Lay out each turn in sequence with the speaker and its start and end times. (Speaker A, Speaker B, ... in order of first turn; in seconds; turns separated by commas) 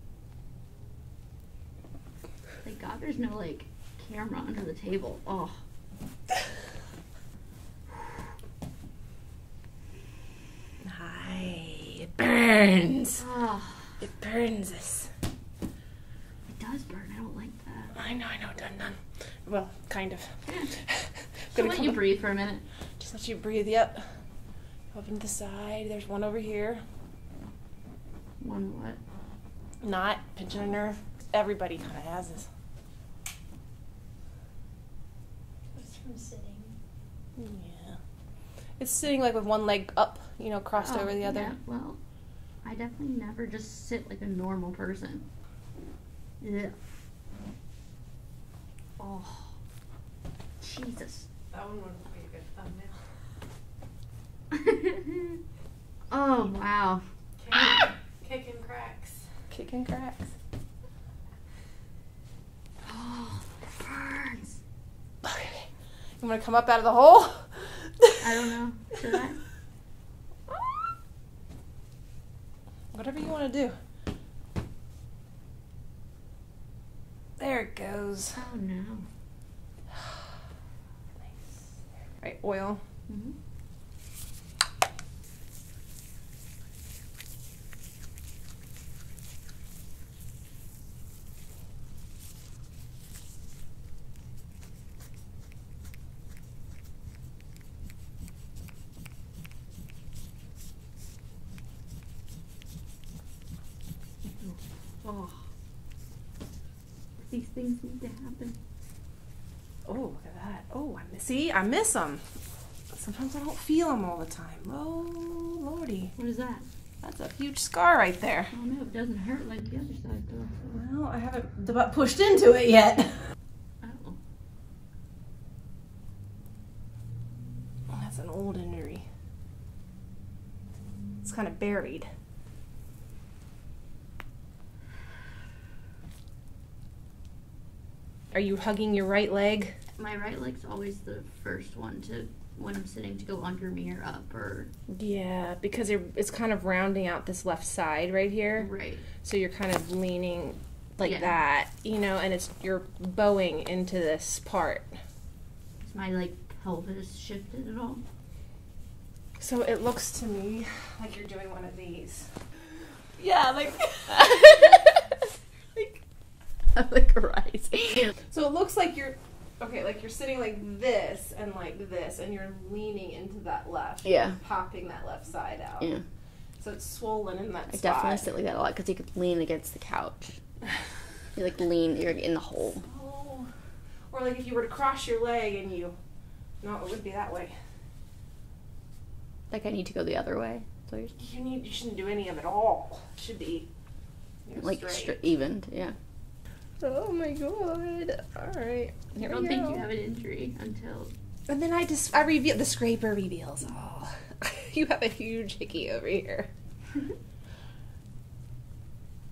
Speaker A: 2.6-5.6, Speaker B: 10.8-13.2, Speaker A: 13.2-14.0, Speaker B: 14.0-15.1, Speaker A: 16.5-17.9, Speaker B: 17.9-22.1, Speaker A: 20.4-20.7, Speaker A: 21.5-22.6, Speaker B: 23.0-24.1, Speaker B: 24.9-26.8, Speaker A: 28.4-29.0, Speaker B: 29.8-32.5, Speaker A: 35.7-36.7, Speaker B: 37.4-38.0, Speaker B: 38.8-41.5, Speaker A: 40.8-42.0, Speaker A: 42.6-45.2, Speaker A: 46.4-46.8, Speaker A: 49.0-49.5, Speaker A: 50.6-51.3, Speaker C: 51.5-52.9, Speaker A: 54.5-55.4, Speaker A: 56.1-57.0, Speaker C: 57.4-59.2, Speaker B: 59.5-60.3, Speaker A: 62.8-64.6, Speaker B: 65.2-65.7, Speaker B: 66.2-68.6, Speaker A: 68.2-69.4, Speaker B: 70.5-70.9, Speaker B: 72.9-73.8, Speaker B: 77.4-78.4, Speaker A: 78.3-79.0, Speaker B: 81.2-81.6, Speaker B: 82.2-82.8, Speaker A: 83.1-83.3, Speaker A: 104.4-105.4, Speaker A: 107.2-108.6, Speaker B: 109.8-112.2, Speaker B: 112.9-116.1, Speaker A: 116.2-116.7, Speaker B: 117.0-118.5, Speaker A: 118.5-120.7, Speaker B: 120.7-123.2, Speaker A: 123.8-124.2, Speaker B: 127.9-129.0, Speaker B: 131.2-132.1, Speaker B: 138.3-139.7, Speaker A: 140.0-144.7, Speaker B: 144.9-148.7, Speaker A: 148.6-149.0, Speaker B: 149.2-154.9, Speaker A: 151.0-151.3, Speaker A: 155.8-158.0, Speaker B: 159.4-162.3, Speaker B: 163.2-164.8, Speaker A: 164.1-165.0, Speaker A: 166.7-168.1, Speaker B: 168.2-175.9, Speaker A: 174.0-174.4, Speaker B: 176.6-178.3, Speaker A: 177.7-180.4, Speaker A: 181.3-182.8, Speaker B: 182.8-183.5, Speaker B: 184.1-185.9, Speaker B: 186.6-187.5, Speaker A: 189.5-191.1, Speaker B: 191.2-193.7, Speaker B: 194.4-195.2, Speaker A: 194.6-195.9, Speaker B: 196.8-199.9, Speaker A: 199.1-201.1, Speaker B: 201.5-206.5